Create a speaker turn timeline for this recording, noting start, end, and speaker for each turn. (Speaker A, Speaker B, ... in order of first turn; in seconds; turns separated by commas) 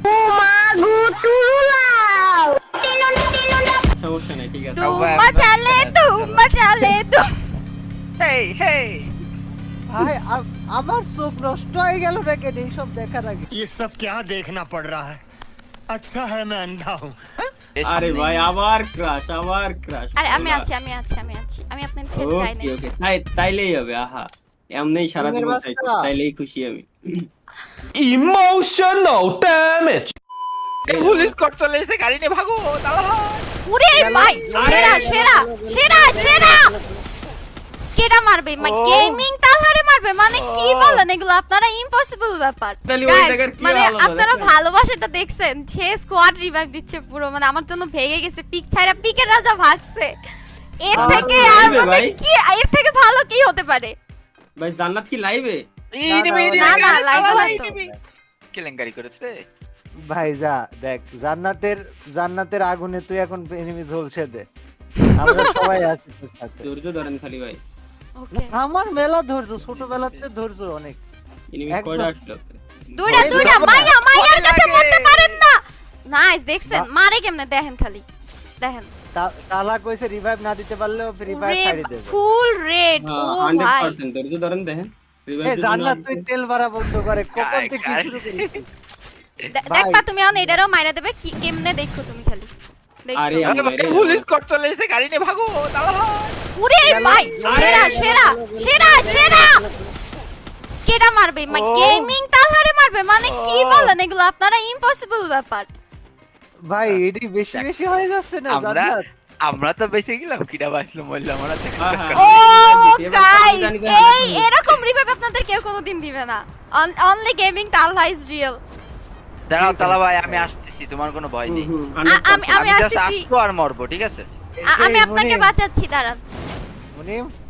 Speaker A: 0.1-2.1, Speaker B: 4.0-4.9, Speaker C: 4.8-7.3, Speaker D: 4.8-6.5, Speaker D: 8.2-9.1, Speaker E: 9.9-13.5, Speaker A: 13.5-15.2, Speaker A: 15.9-17.2, Speaker D: 17.8-18.5, Speaker B: 17.8-20.7, Speaker C: 20.2-22.7, Speaker B: 22.2-27.3, Speaker E: 25.2-26.1, Speaker A: 28.0-30.1, Speaker D: 30.9-33.5, Speaker B: 30.9-31.3, Speaker C: 33.6-36.7, Speaker E: 34.0-37.0, Speaker D: 34.1-34.7, Speaker B: 34.5-35.2, Speaker C: 38.0-50.1, Speaker D: 38.6-39.3, Speaker D: 40.3-41.0, Speaker B: 42.9-44.5, Speaker C: 50.8-54.0, Speaker D: 50.9-51.8, Speaker B: 50.9-52.2, Speaker B: 54.6-55.6, Speaker D: 56.0-57.9, Speaker E: 56.1-58.0, Speaker C: 56.5-57.7, Speaker D: 58.5-59.4, Speaker E: 60.1-64.5, Speaker C: 65.0-65.8, Speaker E: 65.2-66.6, Speaker B: 66.6-67.6, Speaker C: 68.2-68.5, Speaker E: 68.3-71.0, Speaker B: 69.7-70.2, Speaker B: 71.5-72.6, Speaker E: 71.7-72.1, Speaker C: 73.0-78.0, Speaker D: 73.1-75.4, Speaker E: 73.1-73.9, Speaker C: 78.6-78.9, Speaker E: 79.2-82.2, Speaker C: 81.3-84.0, Speaker B: 83.0-86.2, Speaker E: 85.4-88.7, Speaker D: 87.3-88.6, Speaker C: 89.5-92.5, Speaker E: 89.7-90.1, Speaker C: 93.0-93.6, Speaker B: 93.2-94.2, Speaker D: 93.4-96.4, Speaker C: 96.5-99.7, Speaker E: 96.8-99.9, Speaker B: 97.4-98.1, Speaker C: 100.8-105.7, Speaker D: 101.5-102.2, Speaker D: 103.2-103.9, Speaker E: 106.7-109.0, Speaker D: 108.5-112.9, Speaker B: 111.8-114.5, Speaker C: 112.2-118.6, Speaker D: 119.5-124.3, Speaker E: 119.6-120.5, Speaker B: 121.5-122.5, Speaker C: 122.0-123.2, Speaker E: 124.7-125.5, Speaker C: 124.7-126.2, Speaker E: 127.0-127.3